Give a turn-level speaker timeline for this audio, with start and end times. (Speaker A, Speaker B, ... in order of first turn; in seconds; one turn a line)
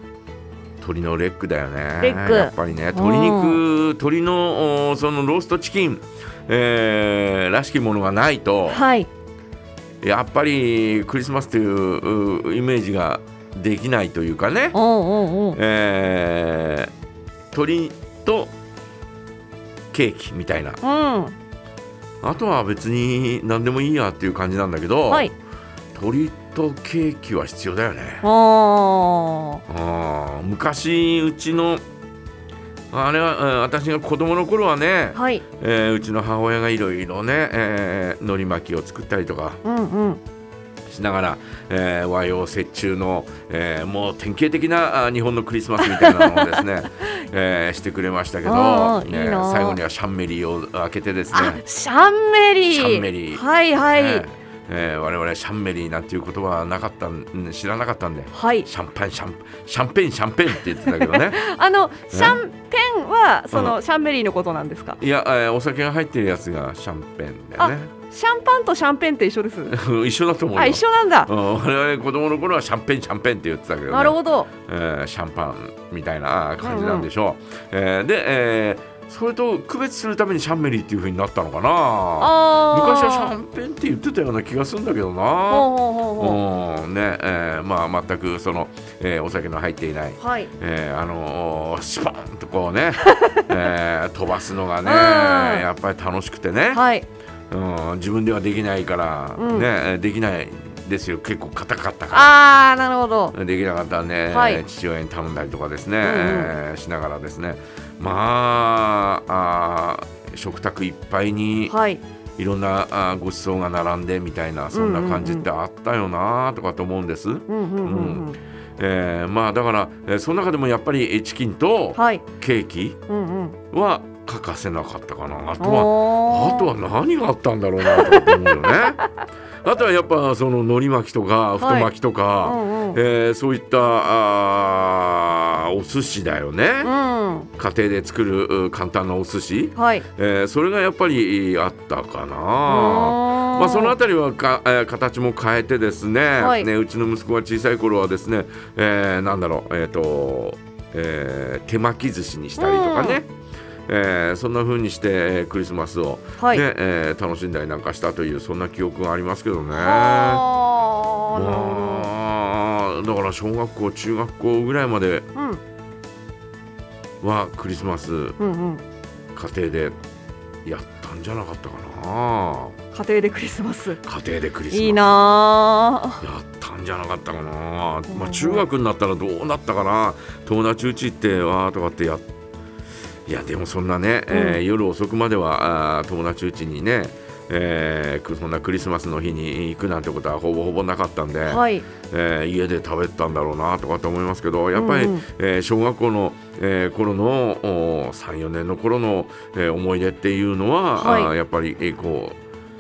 Speaker A: 0.8-8.8
Speaker B: 2.0-3.6
Speaker B: 8.7-9.1
Speaker A: 10.0-14.8
Speaker B: 14.7-15.6
Speaker A: 15.5-16.9
Speaker A: 17.5-18.5
Speaker A: 19.9-20.8
Speaker B: 20.8-21.4
Speaker A: 22.2-25.3
Speaker A: 25.9-28.3
Speaker B: 28.2-29.6
Speaker A: 29.7-31.8
Speaker A: 32.9-39.6
Speaker B: 35.1-35.4
Speaker B: 39.6-40.2
Speaker A: 40.9-51.6
Speaker B: 45.8-46.6
Speaker B: 48.4-49.8
Speaker B: 51.3-54.2
Speaker A: 52.7-61.4
Speaker B: 58.3-58.7
Speaker B: 60.8-65.0
Speaker A: 62.1-62.4
Speaker A: 63.5-63.8
Speaker A: 65.0-67.9
Speaker B: 67.6-69.7
Speaker A: 69.7-96.8
Speaker B: 70.5-71.3
Speaker B: 73.9-74.5
Speaker B: 76.6-77.1
Speaker B: 82.2-83.3
Speaker B: 85.5-86.4
Speaker B: 90.2-90.5
Speaker B: 93.0-93.5
Speaker B: 94.8-95.6
Speaker B: 96.7-97.0
Speaker A: 97.5-102.3
Speaker B: 99.4-99.7
Speaker B: 102.1-103.3
Speaker A: 103.3-111.7
Speaker B: 104.3-104.6
Speaker B: 106.0-106.5
Speaker B: 111.7-112.0
Speaker A: 112.4-118.2
Speaker B: 114.7-115.5
Speaker B: 117.5-118.4
Speaker A: 118.8-123.0
Speaker B: 121.9-122.2
Speaker B: 123.1-123.6
Speaker A: 123.7-129.0
Speaker B: 125.6-126.7
Speaker B: 127.8-128.7
Speaker A: 129.6-136.9
Speaker B: 131.6-131.9
Speaker B: 132.4-133.0
Speaker B: 136.8-137.5
Speaker A: 137.6-153.3
Speaker B: 139.8-140.0
Speaker B: 142.7-143.9
Speaker B: 146.4-146.7
Speaker B: 152.6-153.2
Speaker A: 153.9-160.4
Speaker B: 159.7-162.1
Speaker A: 161.3-165.3
Speaker B: 165.3-165.6
Speaker A: 167.2-168.4
Speaker B: 168.4-168.8
Speaker A: 169.3-170.0
Speaker A: 170.6-172.8
Speaker B: 172.9-174.0
Speaker A: 174.0-175.1
Speaker B: 174.7-176.2
Speaker A: 176.2-182.2
Speaker B: 178.1-178.6
Speaker A: 183.3-202.4
Speaker B: 184.3-184.6
Speaker B: 191.4-191.9
Speaker B: 194.7-195.2
Speaker B: 201.0-201.3